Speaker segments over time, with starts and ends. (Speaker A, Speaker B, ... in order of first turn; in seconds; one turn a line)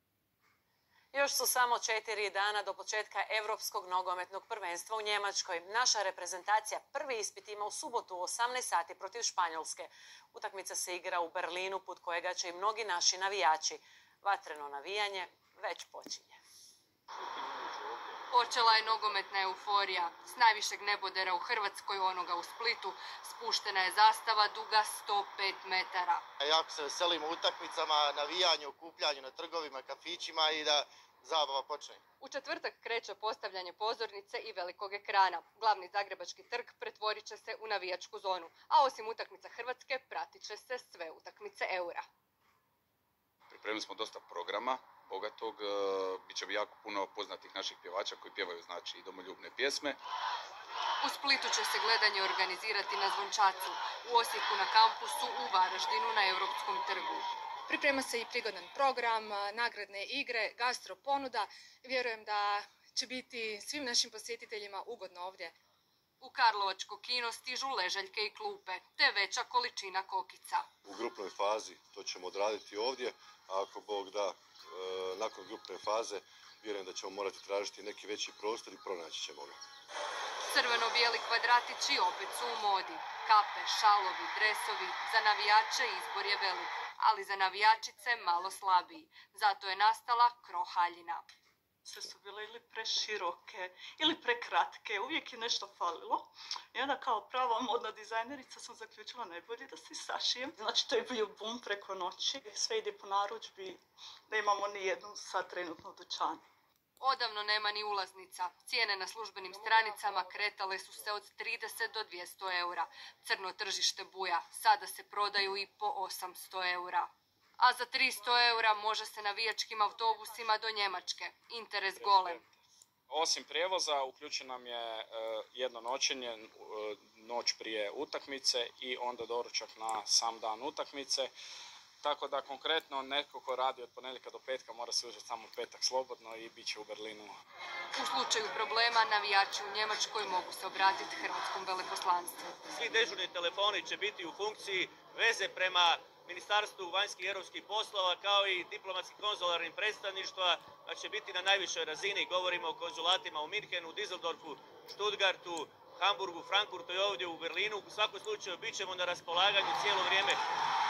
Speaker A: 1.1-16.4
Speaker B: 18.3-26.2
Speaker C: 26.4-32.0
Speaker B: 32.2-42.0
Speaker D: 43.5-50.0
Speaker B: 51.0-57.2
Speaker E: 57.7-65.5
Speaker B: 66.2-70.7
Speaker F: 70.8-79.6
Speaker B: 80.5-91.3
Speaker G: 91.8-106.5
Speaker B: 107.0-122.4
Speaker H: 122.0-122.5
Speaker H: 123.1-131.3
Speaker H: 132.0-137.3
Speaker B: 138.0-142.5
Speaker I: 142.7-160.4